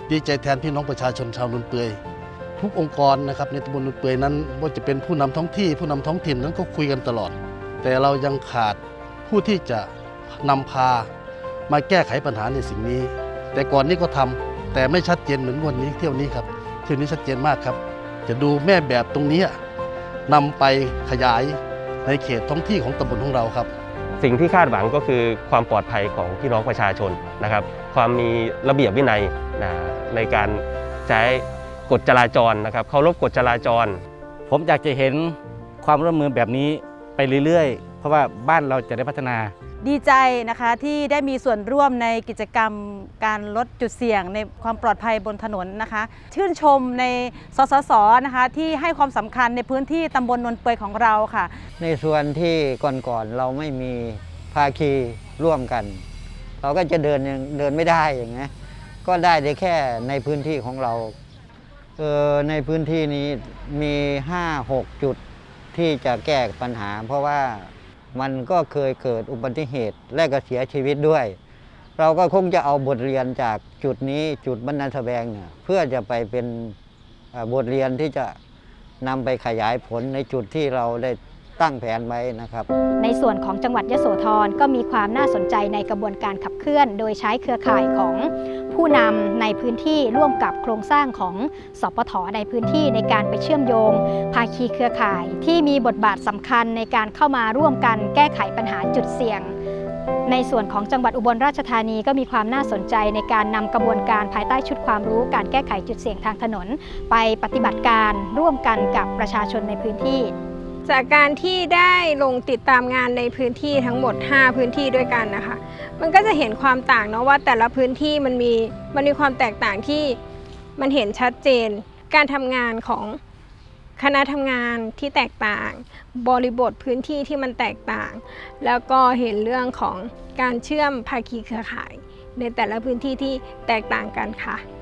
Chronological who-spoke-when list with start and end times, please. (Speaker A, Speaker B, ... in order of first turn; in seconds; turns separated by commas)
Speaker A: 0.1-2.0, Speaker A: 2.6-9.9, Speaker A: 10.4-11.1, Speaker A: 11.7-19.6, Speaker A: 20.3-23.7, Speaker B: 24.2-34.0, Speaker C: 34.5-39.5, Speaker D: 39.8-51.5, Speaker E: 51.8-56.0, Speaker E: 56.6-58.5, Speaker E: 59.0-61.1, Speaker E: 62.0-65.2, Speaker E: 65.7-71.4, Speaker E: 72.0-76.8, Speaker E: 77.3-78.4, Speaker E: 79.0-82.7, Speaker F: 83.0-99.5, Speaker F: 100.3-110.3, Speaker G: 110.9-120.2, Speaker G: 120.8-123.2, Speaker G: 124.0-134.6